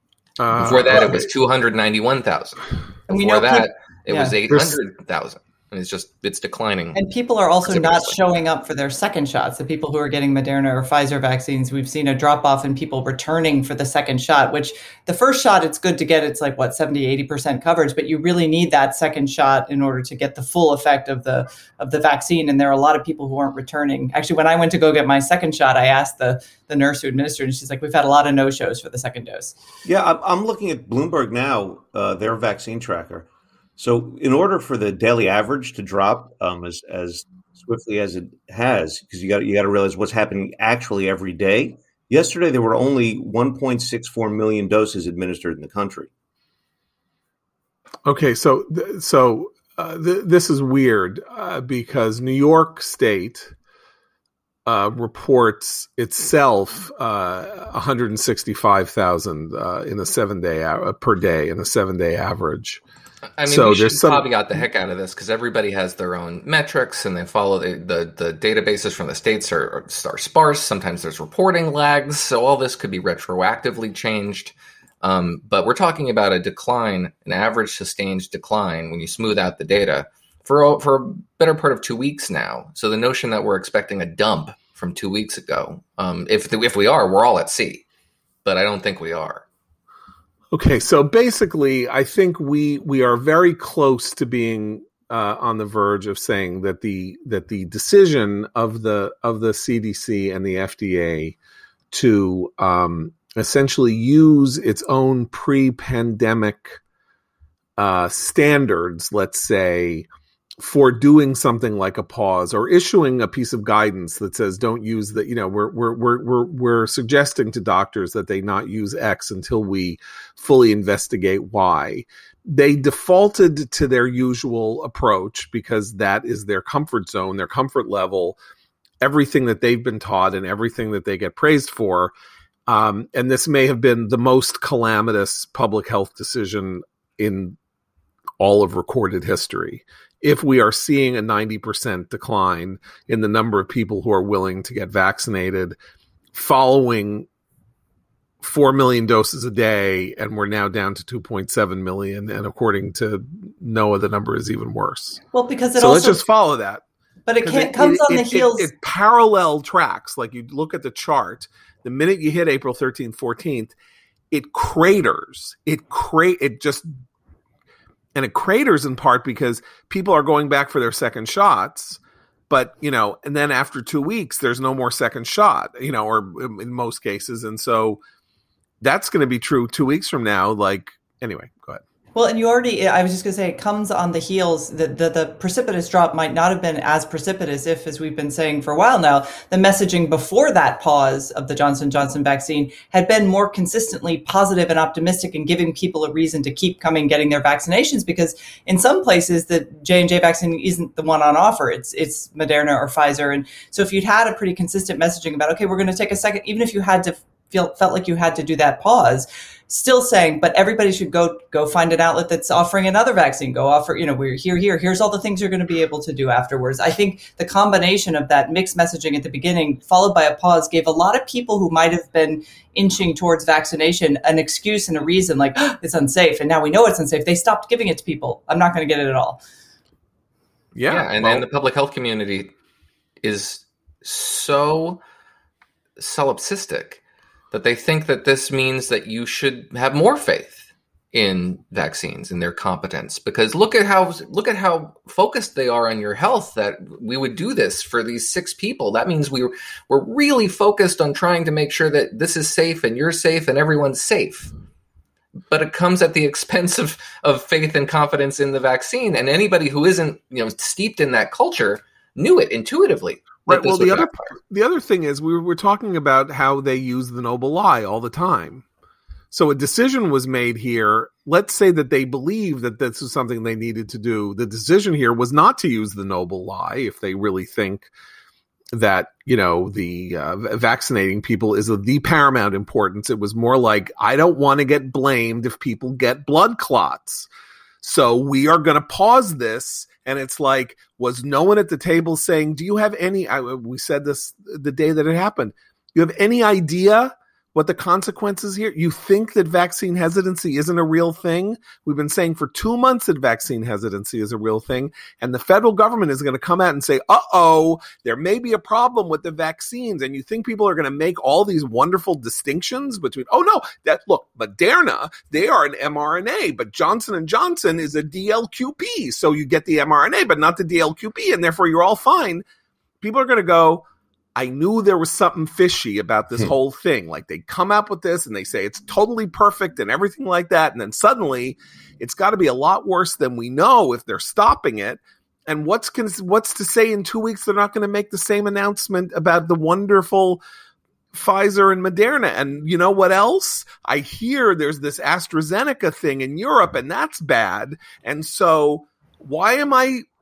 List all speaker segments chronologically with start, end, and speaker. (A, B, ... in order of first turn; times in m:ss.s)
0:00.4-0:01.3 A
0:00.5-0:07.0 B
0:03.1-0:04.4 C
0:04.5-0:04.8 A
0:06.9-0:29.6 C
0:07.6-0:08.2 B
0:29.8-0:46.1 D
0:48.0-0:53.5 A
0:54.6-1:02.8 A
1:03.4-1:27.8 B
1:03.4-1:04.2 A
1:28.4-1:29.4 B
1:30.5-1:41.4 A
1:41.9-1:46.8 A
1:47.8-1:50.0 A
1:50.6-2:08.4 A
2:09.0-2:12.1 A
2:12.7-2:17.6 A
2:18.4-2:25.8 A
2:26.3-2:27.3 A
2:28.4-2:35.2 A
2:35.3-2:36.2 C
2:35.8-2:36.8 A
2:37.2-2:38.7 C
2:37.4-2:43.7 A
2:44.3-2:46.9 A
2:48.1-2:58.0 A
2:58.8-3:01.8 A
3:02.1-3:49.4 C
3:50.7-3:51.4 A
3:50.9-3:52.5 B
3:53.2-3:55.0 B
3:56.0-4:14.5 B
4:15.5-4:24.3 B
4:23.5-4:28.6 A
4:29.3-4:37.9 A
4:38.7-4:47.3 A
4:47.8-5:22.4 A
5:23.0-5:40.4 A
5:41.1-5:50.0 A